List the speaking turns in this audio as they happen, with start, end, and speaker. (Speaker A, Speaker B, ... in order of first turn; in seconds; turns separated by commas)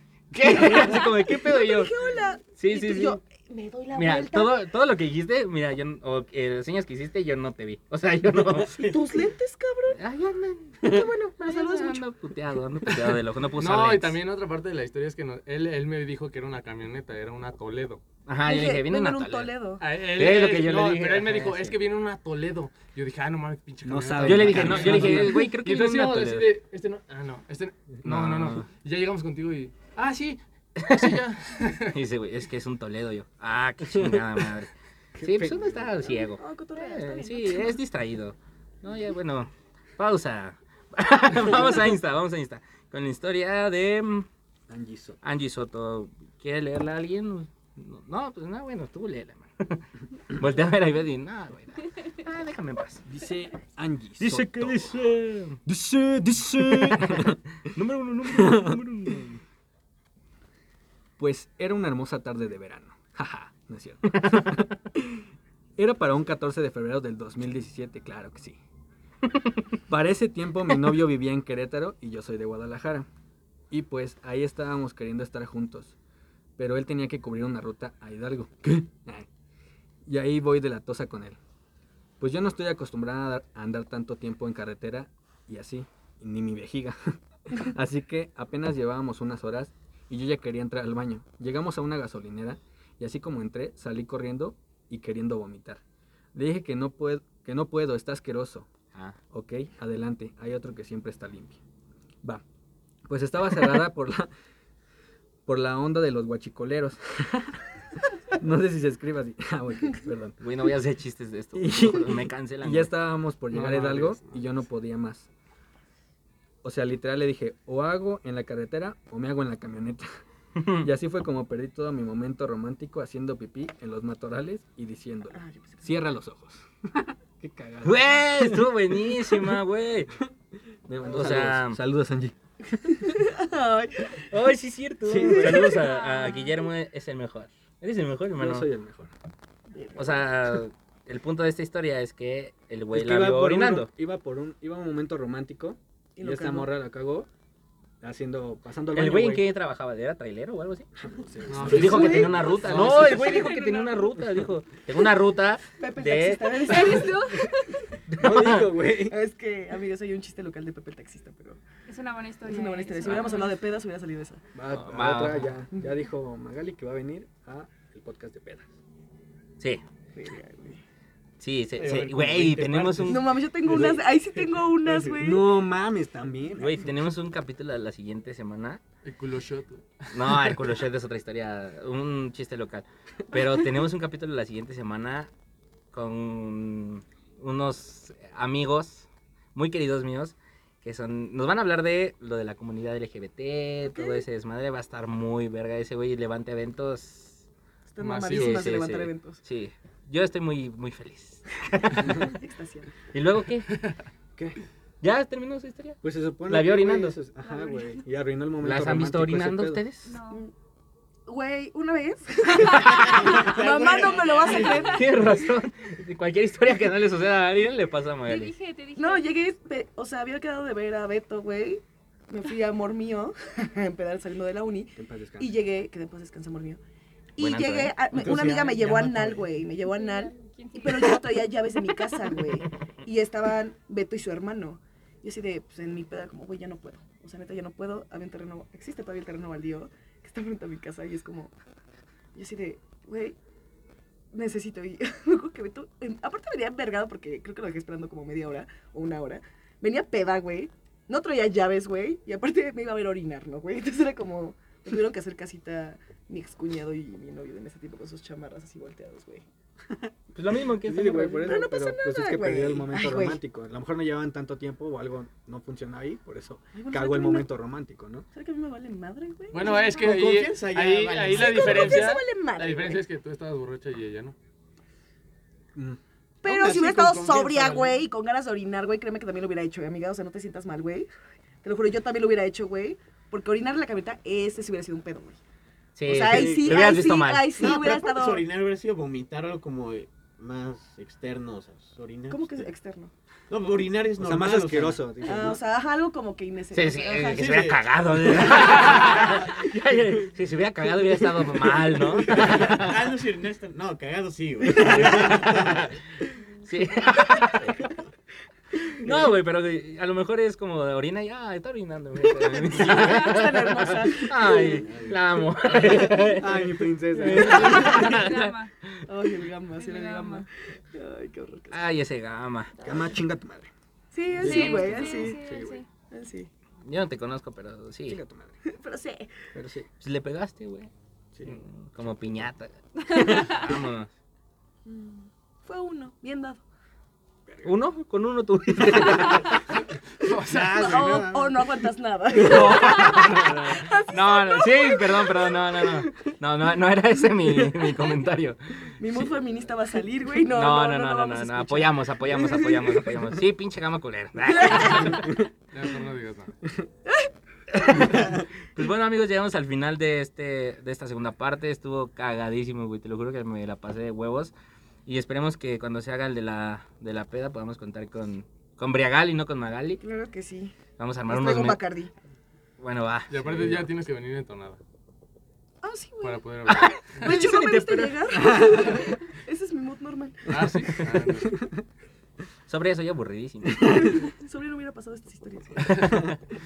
Speaker A: 0.3-1.9, Speaker B: 0.8-4.7, Speaker A: 2.6-3.2, Speaker A: 3.9-8.8, Speaker B: 8.5-10.0, Speaker C: 8.6-9.1, Speaker A: 9.9-14.2, Speaker B: 10.8-12.0, Speaker D: 13.0-18.0, Speaker A: 18.3-19.5, Speaker B: 18.4-19.9, Speaker D: 19.8-32.0, Speaker A: 20.1-21.8, Speaker E: 23.8-25.5, Speaker A: 24.2-26.5, Speaker A: 28.0-28.6, Speaker A: 30.8-31.2, Speaker A: 31.9-34.7, Speaker E: 34.0-34.2, Speaker E: 35.2-36.2, Speaker A: 35.2-44.3, Speaker B: 36.4-37.8, Speaker E: 44.7-45.2, Speaker A: 45.2-53.0, Speaker E: 53.1-55.0, Speaker A: 54.2-55.6, Speaker E: 55.6-57.4, Speaker A: 56.7-59.4, Speaker E: 58.3-59.2, Speaker E: 61.2-65.3, Speaker A: 64.2-64.4, Speaker E: 65.8-68.6, Speaker E: 69.9-73.1, Speaker E: 73.7-76.0, Speaker E: 76.6-79.3, Speaker E: 80.1-81.4, Speaker E: 82.2-95.8, Speaker E: 96.3-98.7, Speaker E: 99.3-101.6, Speaker E: 103.1-104.3, Speaker E: 105.5-107.6, Speaker E: 108.4-110.4, Speaker A: 110.4-112.9, Speaker E: 111.5-115.3, Speaker D: 113.5-114.5, Speaker E: 116.6-120.1, Speaker A: 120.6-120.9, Speaker E: 120.8-128.7, Speaker B: 125.3-125.9, Speaker A: 127.8-130.1, Speaker E: 129.2-129.5, Speaker E: 130.9-132.3, Speaker A: 131.1-131.8, Speaker B: 132.9-134.2, Speaker A: 134.3-138.7, Speaker E: 135.1-135.8, Speaker B: 135.3-135.7, Speaker F: 135.7-136.6, Speaker E: 138.3-139.1, Speaker B: 139.7-140.3, Speaker A: 140.0-143.9, Speaker E: 142.9-147.3, Speaker B: 146.2-146.7, Speaker E: 148.0-149.5, Speaker A: 148.9-150.9, Speaker E: 151.0-153.5, Speaker D: 151.5-153.2, Speaker A: 151.6-157.0, Speaker B: 151.8-153.6, Speaker F: 153.1-154.0, Speaker B: 155.8-157.3, Speaker F: 156.6-157.9, Speaker E: 158.1-159.2, Speaker A: 158.1-158.7, Speaker B: 158.9-161.6, Speaker F: 161.9-163.7, Speaker B: 162.5-164.4, Speaker E: 164.6-168.7, Speaker A: 164.7-165.5, Speaker B: 170.2-170.8, Speaker A: 171.4-173.4, Speaker C: 171.8-173.3, Speaker B: 173.1-175.6, Speaker E: 173.7-174.1, Speaker E: 175.0-176.9, Speaker A: 176.6-178.8, Speaker D: 179.0-180.8, Speaker A: 180.1-185.3, Speaker A: 185.9-197.5, Speaker B: 193.8-194.2, Speaker B: 197.9-199.4, Speaker D: 198.0-198.8, Speaker A: 198.3-202.4, Speaker B: 202.3-202.9, Speaker A: 203.1-203.8, Speaker A: 205.0-207.2, Speaker E: 206.0-209.8, Speaker F: 207.4-208.0, Speaker A: 208.6-210.1, Speaker F: 210.1-210.4, Speaker B: 211.3-215.3, Speaker C: 212.8-215.0, Speaker A: 214.8-218.5, Speaker F: 218.3-219.3, Speaker B: 219.0-226.8, Speaker E: 225.0-225.6, Speaker B: 227.4-241.5, Speaker A: 227.4-228.0, Speaker C: 228.1-229.5, Speaker F: 229.8-231.5, Speaker B: 242.3-243.4, Speaker B: 244.3-259.4, Speaker A: 260.3-261.6, Speaker E: 260.8-268.3, Speaker B: 261.4-263.4, Speaker B: 266.7-267.5, Speaker B: 268.3-270.3, Speaker D: 269.5-274.4, Speaker C: 269.6-272.1, Speaker B: 271.3-273.0, Speaker B: 276.4-281.1, Speaker C: 276.4-278.0, Speaker B: 281.6-285.4, Speaker A: 286.0-287.7, Speaker B: 286.1-288.4, Speaker E: 286.2-287.0, Speaker C: 287.6-292.7, Speaker B: 292.3-293.1, Speaker C: 293.5-295.0, Speaker E: 294.2-295.6, Speaker B: 295.3-297.8, Speaker A: 296.7-303.0, Speaker C: 297.2-298.8, Speaker B: 298.4-299.3, Speaker C: 302.3-305.9, Speaker E: 304.7-305.7, Speaker A: 304.8-305.9, Speaker A: 306.6-307.9, Speaker A: 308.9-319.0, Speaker B: 312.7-315.1, Speaker F: 312.9-313.3, Speaker E: 315.7-318.0, Speaker B: 317.2-318.2, Speaker F: 317.3-318.7, Speaker B: 319.1-321.9, Speaker F: 319.8-320.5, Speaker A: 321.7-322.8, Speaker F: 322.8-323.2, Speaker E: 322.8-323.7, Speaker B: 324.1-325.4, Speaker E: 324.4-325.8, Speaker F: 324.4-325.9, Speaker B: 326.1-326.5, Speaker A: 326.9-328.2, Speaker E: 328.1-328.5, Speaker B: 328.7-329.4, Speaker E: 329.5-329.9, Speaker A: 330.0-330.9, Speaker E: 331.4-331.6, Speaker A: 331.4-334.1, Speaker F: 333.2-333.5, Speaker B: 334.9-336.6, Speaker E: 337.5-337.7, Speaker A: 337.6-339.6, Speaker D: 340.2-341.4, Speaker E: 340.5-341.6, Speaker B: 340.7-346.0, Speaker A: 342.4-349.3, Speaker B: 347.7-348.1, Speaker B: 349.0-353.0, Speaker A: 350.5-355.4, Speaker B: 354.4-355.3, Speaker D: 355.7-356.5, Speaker A: 357.7-364.5, Speaker A: 365.1-370.0, Speaker B: 370.0-370.8, Speaker A: 371.0-371.8, Speaker B: 371.3-372.1, Speaker A: 372.8-373.8, Speaker D: 373.3-374.8, Speaker E: 373.5-373.8, Speaker B: 375.8-376.6, Speaker D: 376.2-377.5, Speaker A: 376.9-378.3, Speaker B: 377.2-380.5, Speaker E: 378.4-378.8, Speaker D: 380.5-381.6, Speaker E: 380.6-381.8, Speaker A: 382.7-384.2, Speaker B: 384.0-386.2, Speaker A: 385.9-386.4